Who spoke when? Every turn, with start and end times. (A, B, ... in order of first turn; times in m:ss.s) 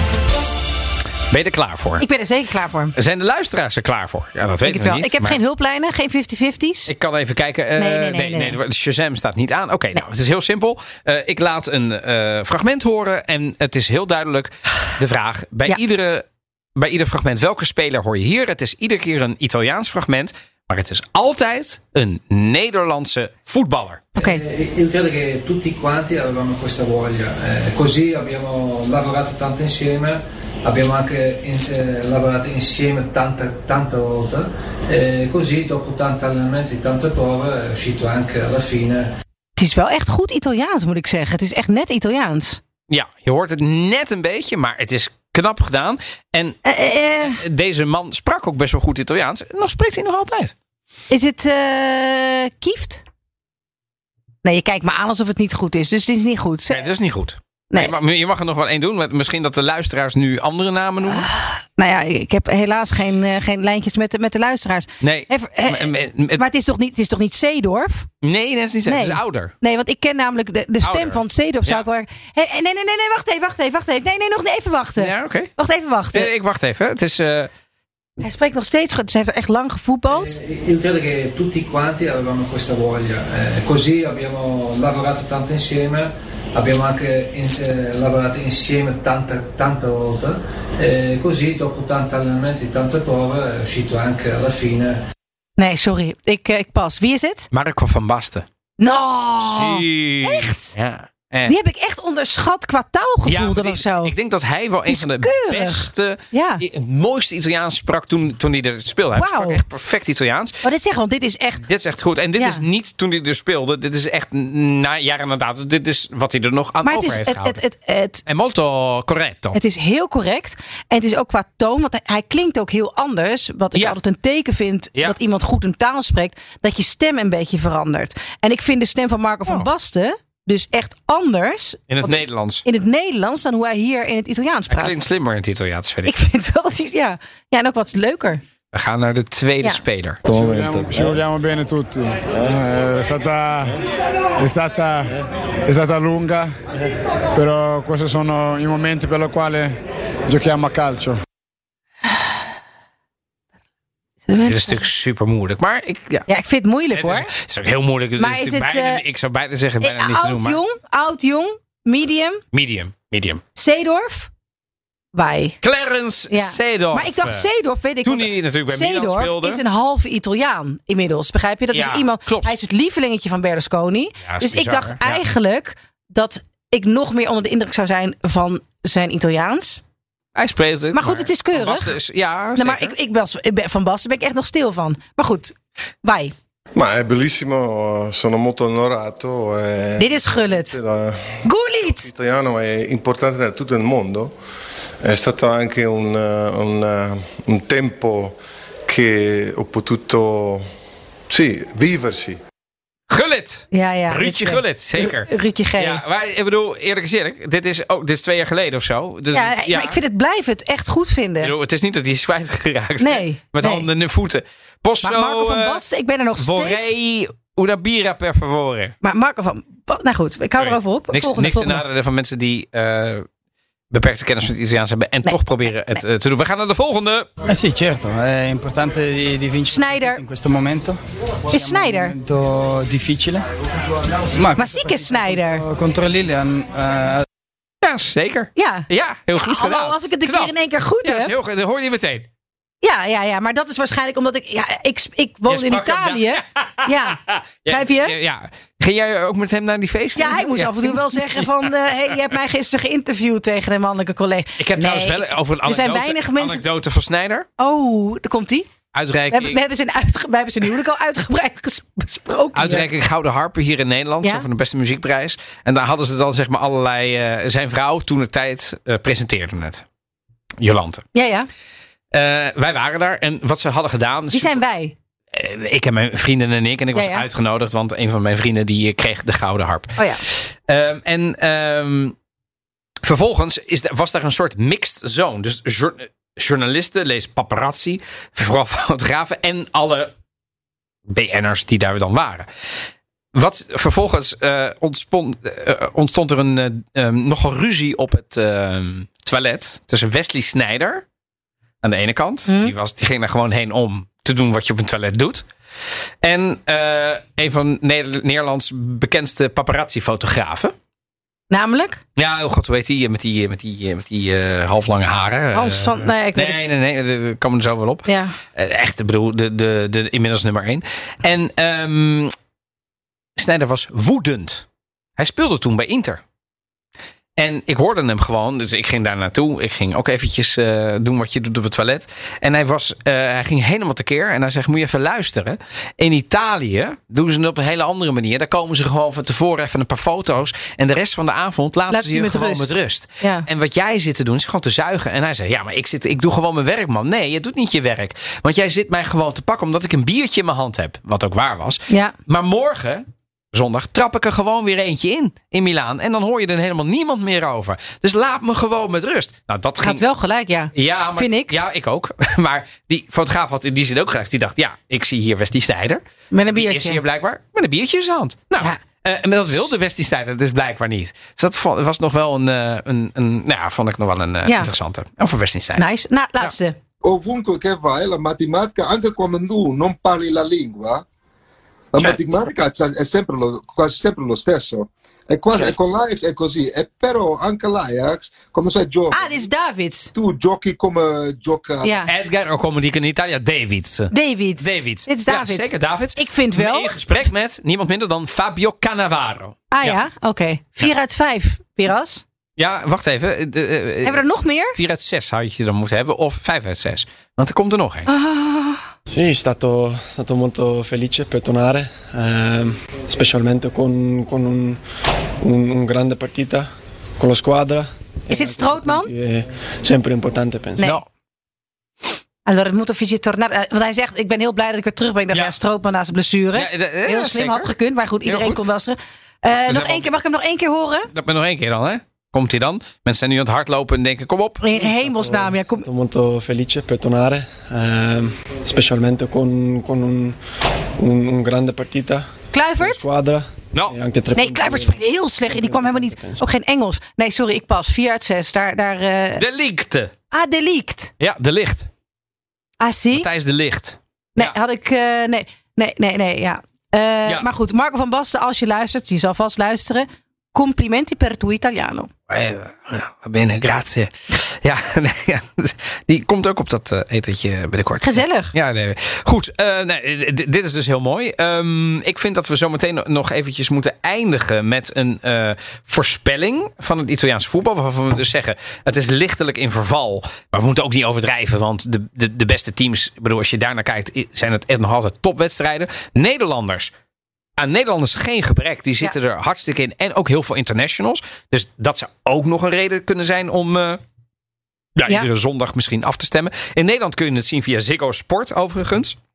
0:01.3-0:02.1 A
0:02.0-0:02.9 B
0:03.0-0:05.4 A
0:04.6-0:06.9 B
0:06.9-0:24.1 A
0:07.8-0:08.6 B
0:24.2-0:24.4 B
0:24.2-0:39.1 C
0:39.6-0:42.6 B
0:42.9-0:46.6 A
0:46.6-0:47.4 B
0:47.2-0:50.5 A
0:51.1-0:53.0 B
0:54.4-0:56.9 B
0:56.7-1:01.3 A
1:01.1-1:08.1 B
1:05.0-1:06.4 A
1:08.2-1:09.5 A
1:08.9-1:16.3 B
1:10.8-1:11.8 A
1:15.0-1:15.5 A
1:16.1-1:17.5 A
1:18.2-1:20.4 B
1:20.1-1:35.0 C
1:35.6-1:37.5 B
1:37.5-1:38.5 A
1:38.8-1:40.8 B
1:39.4-1:41.6 A
1:41.5-1:44.1 B
1:43.2-1:50.6 A
1:44.9-1:46.6 B
1:49.2-1:49.6 B
1:50.6-1:51.6 B
1:51.6-1:57.6 A
1:52.4-1:52.6 B
1:56.8-1:58.2 B
1:58.3-1:59.6 A
1:59.5-2:15.0 B
2:11.9-2:12.6 A
2:14.7-2:16.2 A
2:16.0-2:18.4 B
2:18.7-2:20.3 A
2:20.3-2:23.8 D
2:20.3-2:21.0 E
2:24.4-2:25.2 D
2:25.7-2:26.6 D
2:27.3-2:31.2 D
2:34.3-2:34.8 B
2:34.4-2:36.3 A
2:36.3-2:37.3 B
2:36.9-2:40.6 A
2:38.2-2:39.0 B
2:39.8-2:42.4 B
2:42.5-2:43.4 A
2:43.6-2:44.3 B
2:45.1-2:45.6 B
2:45.6-2:47.5 A
2:46.3-2:59.8 B
2:48.0-2:49.6 A
2:51.7-2:52.6 A
2:54.2-2:55.2 A
3:00.4-3:03.0 A
3:00.9-3:02.0 B
3:02.6-3:06.3 B
3:06.8-3:14.3 F
3:10.0-3:10.8 B
3:11.4-3:12.1 B
3:15.0-3:20.7 F
3:21.3-3:22.4 F
3:23.1-3:30.0 A
3:23.7-3:26.0 B
3:29.3-3:31.5 B
3:31.4-3:35.8 A
3:33.0-3:33.9 B
3:35.0-3:36.9 B
3:36.4-3:39.0 A
3:39.0-3:41.8 B
3:40.6-3:43.3 A
3:43.9-3:47.3 A
3:47.5-3:51.0 G
3:49.7-3:50.2 B
3:51.5-3:52.2 B
3:51.5-3:53.4 G
3:54.3-3:57.2 G
3:54.6-3:55.6 B
3:57.8-4:02.3 A
3:58.6-4:01.3 B
4:02.8-4:08.2 B
4:05.5-4:11.7 A
4:10.2-4:16.6 B
4:14.6-4:17.5 A
4:17.6-4:18.7 B
4:18.9-4:19.6 A
4:19.3-4:22.9 B
4:22.5-4:29.8 A
4:30.6-4:31.1 A
4:31.1-4:31.5 B
4:32.1-4:34.6 A
4:34.3-4:35.0 B
4:35.3-4:42.2 A
4:36.9-4:37.3 B
4:40.0-4:40.2 B
4:43.0-4:50.1 A
4:51.1-4:52.5 A
4:53.3-5:01.0 A
5:01.8-5:05.5 A
5:02.5-5:02.7 B
5:06.2-5:10.8 A
5:11.5-5:12.0 B
5:12.2-5:22.3 A
5:15.5-5:16.6 B
5:18.1-5:18.4 B
5:23.4-5:24.6 A
5:25.2-5:26.2 A
5:27.4-6:00.0 A
5:41.9-5:43.5 B
5:51.9-5:52.2 B
5:59.8-6:01.5 B
6:00.7-6:15.9 A
6:06.3-6:07.0 B
6:14.4-6:14.7 B
6:15.8-6:16.8 B
6:17.0-6:21.0 H
6:21.9-6:29.3 H
6:29.1-6:30.1 B
6:30.1-6:32.0 H
6:31.8-6:32.1 B
6:32.0-6:40.0 A
6:34.1-6:37.0 B
6:39.7-6:42.2 B
6:42.6-6:48.1 A
6:44.0-6:44.8 B
6:48.1-6:48.8 B
6:49.1-6:54.8 E
6:55.4-6:56.7 E
6:57.2-7:00.8 E
6:58.3-6:59.1 B
7:00.8-7:01.0 B
7:00.8-7:01.0 A
7:02.5-7:11.1 B
7:06.5-7:07.7 A
7:08.2-7:08.6 A
7:09.5-7:10.1 A
7:11.1-7:14.6 A
7:14.6-7:15.9 B
7:14.7-7:20.4 E
7:21.0-7:26.4 E
7:22.5-7:23.0 B
7:24.3-7:29.4 B
7:29.4-7:30.1 A
7:30.3-7:31.1 B
7:31.2-7:31.9 A
7:32.8-7:33.3 B
7:33.1-7:34.6 A
7:34.4-7:42.1 B
7:42.3-8:06.9 A
7:48.0-7:48.5 B
8:07.6-8:14.0 A
8:15.0-8:19.2 A